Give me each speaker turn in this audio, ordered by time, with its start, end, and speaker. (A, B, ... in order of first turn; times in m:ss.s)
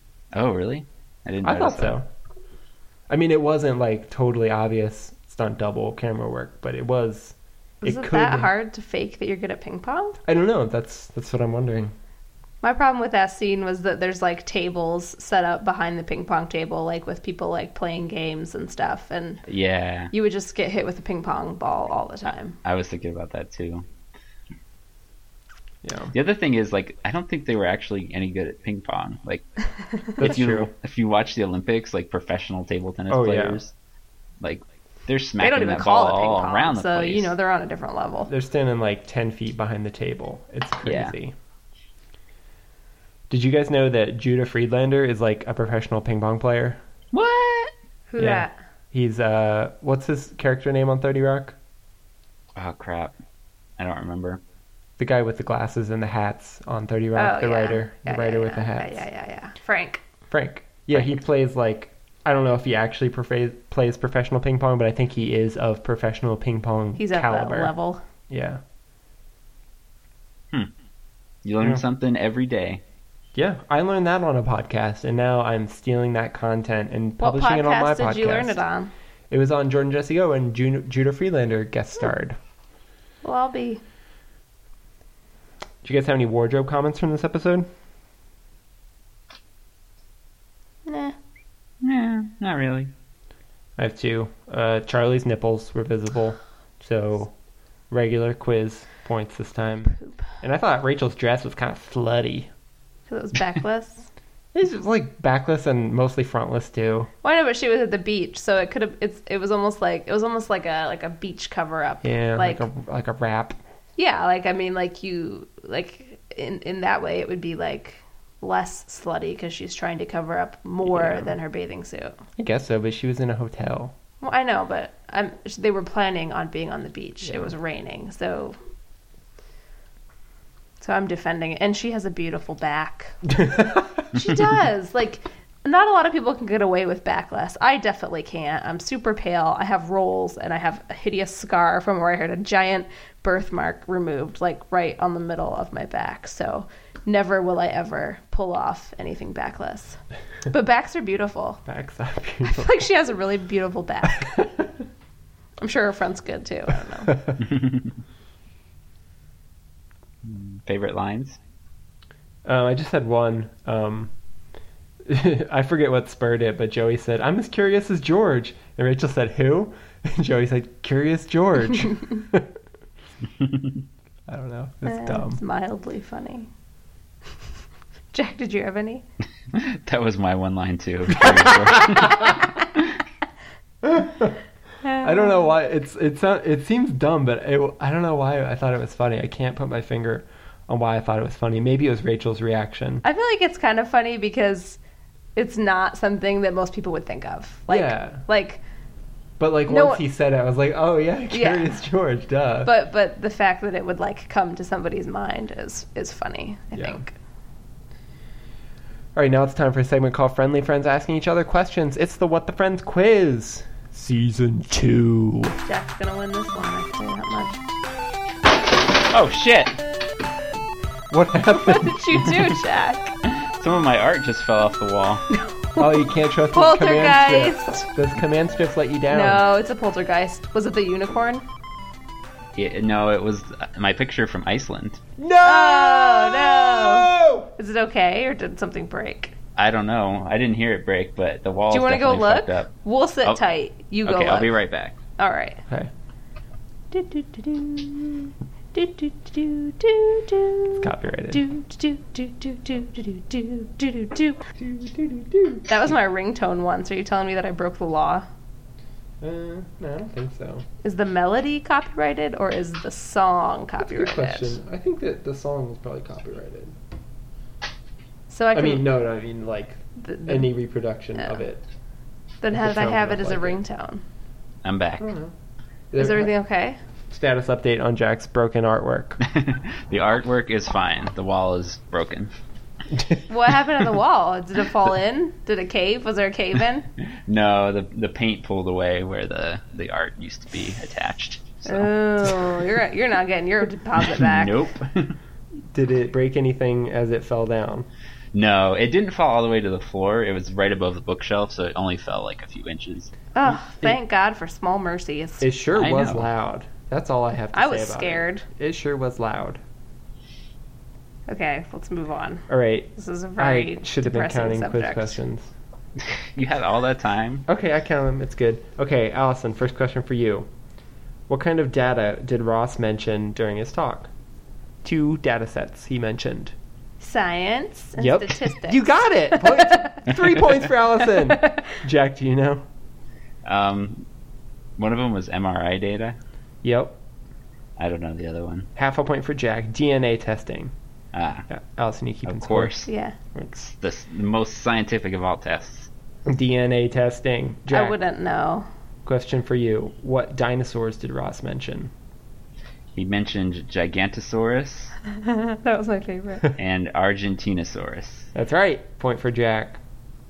0:00.3-0:02.0 A
0:01.4-0:02.1 B
0:03.1-0:08.5 B
0:07.8-0:10.2 C
0:10.3-0:11.9 B
0:12.6-0:19.4 C
0:19.5-0:20.1 A
0:20.1-0:22.6 C
0:22.6-0:23.9 A
0:25.8-0:26.1 B
0:26.1-0:29.5 A
0:30.2-0:33.7 A
0:30.2-0:30.7 B
0:33.1-0:33.6 B
0:34.4-0:37.4 A
0:35.4-0:38.3 C
0:38.3-0:41.4 B
0:40.8-0:41.1 A
0:43.3-0:46.8 B
0:47.1-0:47.7 A
0:48.1-0:48.5 C
0:48.2-0:51.6 B
0:52.6-0:53.2 A
0:53.8-0:54.4 A
0:55.0-0:59.0 B
0:57.2-1:00.0 C
1:00.3-1:07.7 B
1:07.0-1:08.0 C
1:08.3-1:08.6 B
1:11.4-1:12.8 A
1:13.4-1:18.6 B
1:17.2-1:18.9 C
1:19.3-1:22.4 B
1:23.2-1:23.8 C
1:25.8-1:27.7 B
1:30.9-1:31.2 C
1:31.8-1:32.9 A
1:33.8-1:37.3 B
1:37.9-1:42.5 B
1:43.1-1:44.1 C
1:44.5-1:47.1 B
1:47.2-1:52.7 C
1:52.0-1:53.6 B
1:54.0-2:02.2 C
2:00.9-2:01.3 B
2:02.4-2:03.9 B
2:04.2-2:08.6 C
2:10.8-2:13.4 C
2:13.3-2:14.0 B
2:14.1-2:31.6 C
2:31.7-2:32.8 B
2:32.4-2:34.3 C
2:34.2-2:34.7 B
2:35.6-2:37.2 C
2:37.1-2:37.4 B
2:37.5-2:37.9 A
2:40.2-2:41.4 A
2:42.5-2:44.1 B
2:45.0-2:52.5 B
2:53.4-2:53.8 A
2:54.3-2:55.4 B
2:54.9-2:56.5 C
2:58.1-2:59.0 C
2:59.5-3:02.9 A
3:01.7-3:02.1 B
3:03.8-3:04.4 B
3:04.8-3:05.5 C
3:04.9-3:13.0 B
3:13.0-3:14.8 C
3:15.4-3:18.6 C
3:17.7-3:18.2 B
3:19.4-3:22.7 B
3:19.7-3:20.0 C
3:21.3-3:21.6 C
3:22.6-3:27.1 C
3:26.8-3:27.0 B
3:29.2-3:35.6 B
3:35.6-3:37.6 C
3:39.0-3:39.8 A
3:41.1-3:42.2 B
3:41.4-3:43.2 C
3:43.2-3:45.2 A
3:45.3-3:47.9 C
3:45.8-3:49.4 B
3:49.1-3:51.4 C
3:52.6-3:55.0 A
3:55.2-3:57.5 B
3:55.4-3:59.4 C
3:59.6-4:02.7 A
4:01.7-4:04.6 C
4:04.0-4:05.0 A
4:05.2-4:05.6 C
4:06.9-4:14.5 C
4:10.8-4:11.4 B
4:14.6-4:15.8 B
4:15.7-4:18.3 C
4:19.2-4:20.6 B
4:20.8-4:24.6 C
4:23.8-4:26.8 B
4:28.3-4:28.9 C
4:28.5-4:31.6 B
4:30.0-4:30.5 C
4:32.4-4:34.0 C
4:32.5-4:33.6 B
4:34.6-4:35.1 A
4:35.0-4:35.3 B
4:35.9-4:36.3 B
4:36.0-4:36.8 C
4:37.1-4:39.2 B
4:39.2-4:42.3 A
4:43.3-4:46.9 C
4:47.3-4:51.9 A
4:51.6-4:54.6 C
4:54.0-4:55.2 A
4:55.7-4:57.9 B
4:58.3-5:03.1 A
5:03.4-5:05.5 C
5:05.4-5:09.6 B
5:05.8-5:06.3 A
5:07.5-5:08.4 C
5:11.3-5:15.2 C
5:12.5-5:15.5 B
5:16.0-5:17.4 A
5:17.5-5:20.5 B
5:21.3-5:24.1 B
5:24.8-5:26.6 B
5:27.0-5:30.0 C
5:28.0-5:32.6 B
5:33.4-5:34.1 A
5:34.8-5:36.2 A
5:36.6-5:37.0 B
5:37.8-5:38.7 A
5:38.8-5:40.7 B
5:41.1-5:41.5 A
5:41.5-5:43.7 B
5:42.3-5:42.9 A
5:42.9-5:43.2 C
5:43.7-5:45.9 A
5:46.3-5:48.0 B
5:47.7-5:48.7 C
5:49.0-5:51.9 B
5:53.0-5:55.0 A
5:55.1-5:56.5 C
5:56.6-5:58.3 A
5:58.3-5:59.8 B